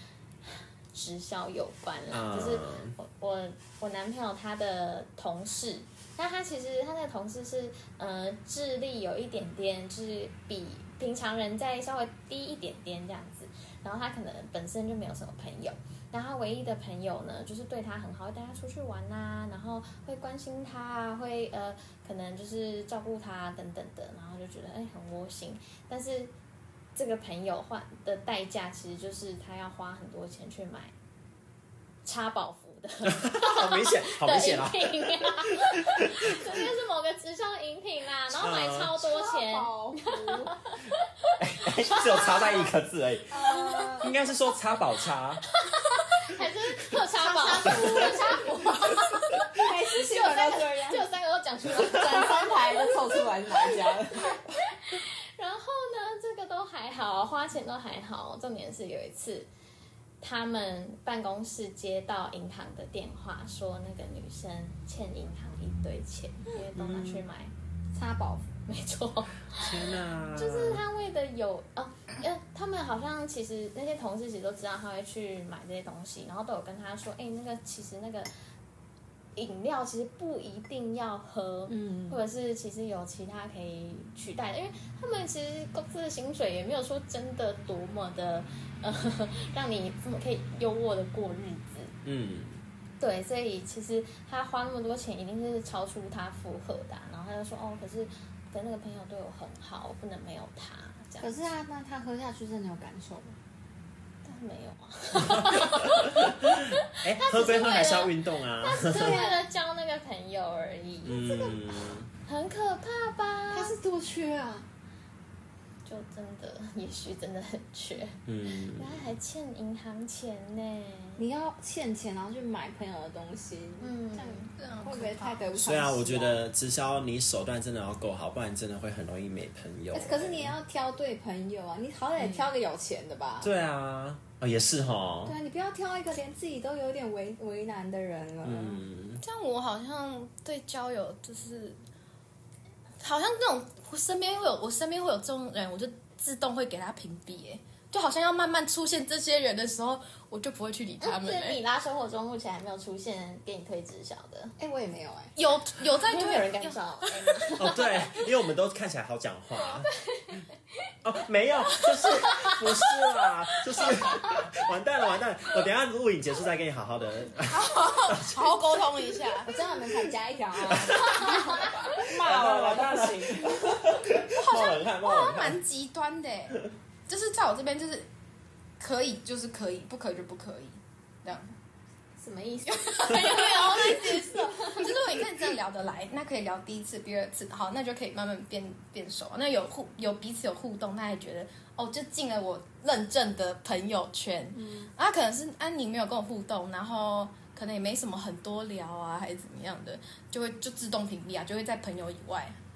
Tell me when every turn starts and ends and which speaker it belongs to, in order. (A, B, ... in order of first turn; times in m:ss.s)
0:00.4-0:26.3 A
0:02.1-0:03.0 B
0:27.0-0:30.9 A
0:32.0-0:42.7 A
0:33.0-0:36.6 B
0:38.3-0:39.0 B
0:39.0-0:40.5 C
0:41.4-0:43.5 B
0:43.3-0:44.1 C
0:44.0-0:45.4 B
0:45.5-0:59.5 A
0:47.1-0:48.4 C
0:47.7-0:48.1 B
0:49.5-0:51.0 C
0:51.9-0:54.4 C
1:00.2-1:07.5 A
1:06.7-1:07.2 B
1:07.9-1:08.6 C
1:08.7-1:18.3 A
1:09.5-1:10.8 B
1:19.4-1:31.9 A
1:21.7-1:22.2 C
1:32.0-1:32.6 B
1:33.0-1:41.5 A
1:41.2-1:43.4 C
1:44.2-1:53.7 A
1:45.2-1:49.2 B
1:48.8-1:49.4 C
1:51.0-1:52.1 B
1:53.5-1:54.6 C
1:55.8-2:01.2 A
1:58.2-1:59.0 B
2:01.2-2:06.4 C
2:03.8-2:04.5 A
2:04.6-2:05.5 D
2:05.6-2:10.6 B
2:09.9-2:13.5 C
2:13.4-2:15.4 B
2:15.2-2:18.8 C
2:18.4-2:19.2 B
2:19.2-2:21.8 D
2:23.0-2:31.6 D
2:31.0-2:34.6 A
2:34.6-2:35.3 C
2:35.4-2:37.4 D
2:36.0-2:38.1 A
2:37.6-2:39.9 B
2:40.0-2:40.9 A
2:41.0-2:48.5 B
2:42.0-2:42.9 A
2:43.8-2:44.5 A
2:47.4-2:49.5 D
2:49.4-2:54.0 C
2:50.6-2:55.6 B
2:54.3-2:58.1 D
2:58.8-3:01.5 D
3:02.2-3:05.0 A
3:02.7-3:22.6 D
3:14.5-3:14.9 C